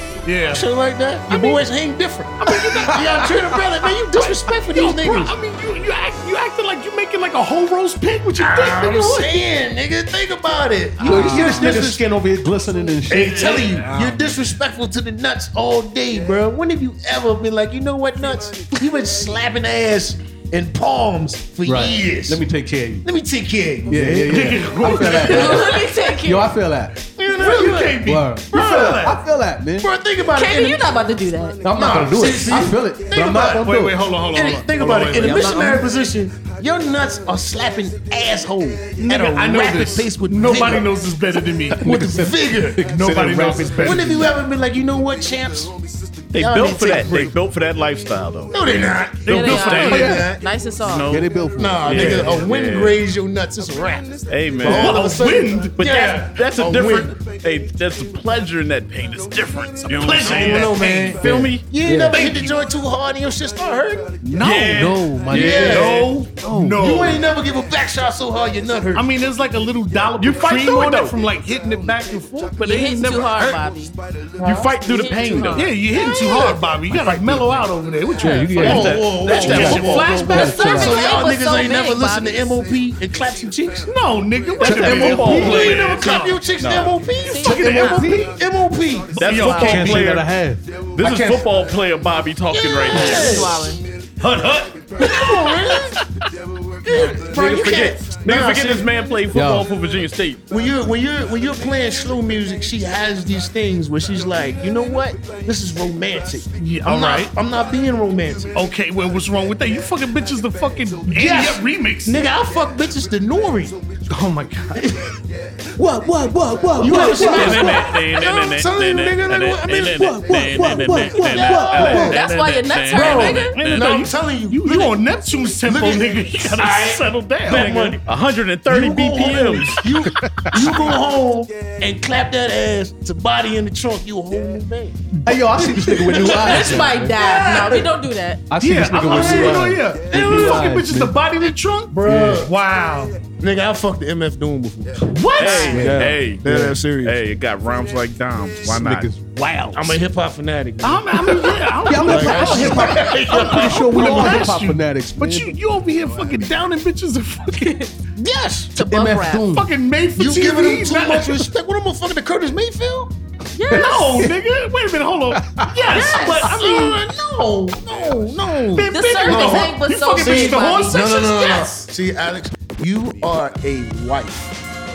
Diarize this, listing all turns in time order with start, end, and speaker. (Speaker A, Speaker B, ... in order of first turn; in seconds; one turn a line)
Speaker A: 0.2-0.7
Speaker B: 0.5-5.3
Speaker C: 1.3-1.6
Speaker A: 2.4-3.5
Speaker A: 4.1-9.4
Speaker B: 8.4-12.0
Speaker A: 11.0-11.8
Speaker D: 11.0-13.8
Speaker B: 13.1-22.4
Speaker A: 13.6-14.3
Speaker D: 21.6-23.1
Speaker B: 23.0-24.6
Speaker D: 23.9-27.1
Speaker A: 24.3-25.7
Speaker C: 24.9-26.5
Speaker B: 27.2-28.0
Speaker A: 27.3-29.2
Speaker D: 28.0-29.9
Speaker B: 29.8-30.9
Speaker C: 30.3-31.6
Speaker D: 31.6-34.1
Speaker B: 31.7-32.8
Speaker A: 33.0-35.8
Speaker B: 34.3-40.9
Speaker D: 35.1-35.9
Speaker A: 39.0-41.9
Speaker B: 41.7-45.8
Speaker D: 41.8-44.3
Speaker A: 42.8-44.3
Speaker B: 46.3-47.3
Speaker E: 46.3-50.2
Speaker B: 48.5-50.4
Speaker A: 49.2-50.3
Speaker C: 49.3-51.1
Speaker D: 49.9-50.3
Speaker E: 50.8-51.3
Speaker D: 51.1-52.4
Speaker B: 51.6-57.1
Speaker E: 51.8-53.0
Speaker A: 52.0-52.3
Speaker E: 54.3-55.1
Speaker A: 54.6-55.8
Speaker E: 55.8-61.6
Speaker A: 59.9-61.1
Speaker B: 60.2-64.1
Speaker D: 61.2-62.3
Speaker A: 62.1-62.6
Speaker A: 64.2-67.3
Speaker E: 64.3-66.1
Speaker D: 64.4-65.9
Speaker B: 65.3-66.1
Speaker D: 66.4-66.8
Speaker B: 66.7-69.1
Speaker A: 68.9-73.6
Speaker E: 70.2-71.2
Speaker C: 72.6-76.6
Speaker B: 74.4-74.7
Speaker E: 74.4-75.7
Speaker A: 75.5-80.3
Speaker E: 76.9-77.6
Speaker D: 78.2-81.1
Speaker C: 78.2-78.5
Speaker E: 78.6-80.1
Speaker B: 78.6-83.9
Speaker C: 79.3-82.5
Speaker A: 83.8-86.4
Speaker E: 84.6-87.0
Speaker B: 84.6-89.3
Speaker D: 84.6-85.8
Speaker C: 87.2-88.1
Speaker A: 87.4-88.4
Speaker A: 89.1-90.1
Speaker E: 89.2-90.3
Speaker C: 89.3-89.8
Speaker D: 89.6-90.6
Speaker E: 90.9-93.5
Speaker B: 91.0-91.5
Speaker B: 92.5-94.3
Speaker C: 92.9-93.8
Speaker A: 94.2-95.5
Speaker B: 95.0-96.0
Speaker B: 96.8-98.9
Speaker C: 96.9-97.2
Speaker E: 97.1-100.4
Speaker D: 99.3-99.7
Speaker B: 100.5-108.6
Speaker A: 106.6-107.3
Speaker A: 108.5-112.2
Speaker B: 111.1-113.8
Speaker A: 114.0-115.0
Speaker D: 115.8-118.0
Speaker B: 116.8-120.0
Speaker E: 117.1-124.0
Speaker D: 119.8-122.2
Speaker B: 121.1-122.2
Speaker C: 121.4-123.6
Speaker B: 122.9-125.0
Speaker A: 123.1-127.8
Speaker B: 125.6-128.0
Speaker E: 127.5-129.9
Speaker B: 128.7-135.0
Speaker D: 130.2-130.7
Speaker D: 135.2-137.2
Speaker B: 135.6-137.9
Speaker C: 136.1-138.4
Speaker D: 138.5-141.2
Speaker A: 138.6-143.2
Speaker B: 138.9-140.6
Speaker B: 141.9-142.5
Speaker D: 142.0-142.5
Speaker B: 143.4-147.2
Speaker A: 145.0-145.9
Speaker E: 145.3-149.1
Speaker D: 145.7-146.8
Speaker D: 148.6-150.0
Speaker B: 149.7-154.5
Speaker A: 150.8-157.8
Speaker D: 151.8-155.5
Speaker C: 157.5-157.9
Speaker B: 158.2-158.7
Speaker C: 158.7-159.5
Speaker D: 158.7-159.7
Speaker A: 159.4-161.4
Speaker B: 160.2-163.1
Speaker C: 163.5-164.2
Speaker A: 163.7-167.1
Speaker D: 163.7-164.2
Speaker D: 165.4-165.9
Speaker C: 165.8-166.7
Speaker B: 166.0-174.6
Speaker A: 168.7-171.5
Speaker C: 168.9-171.8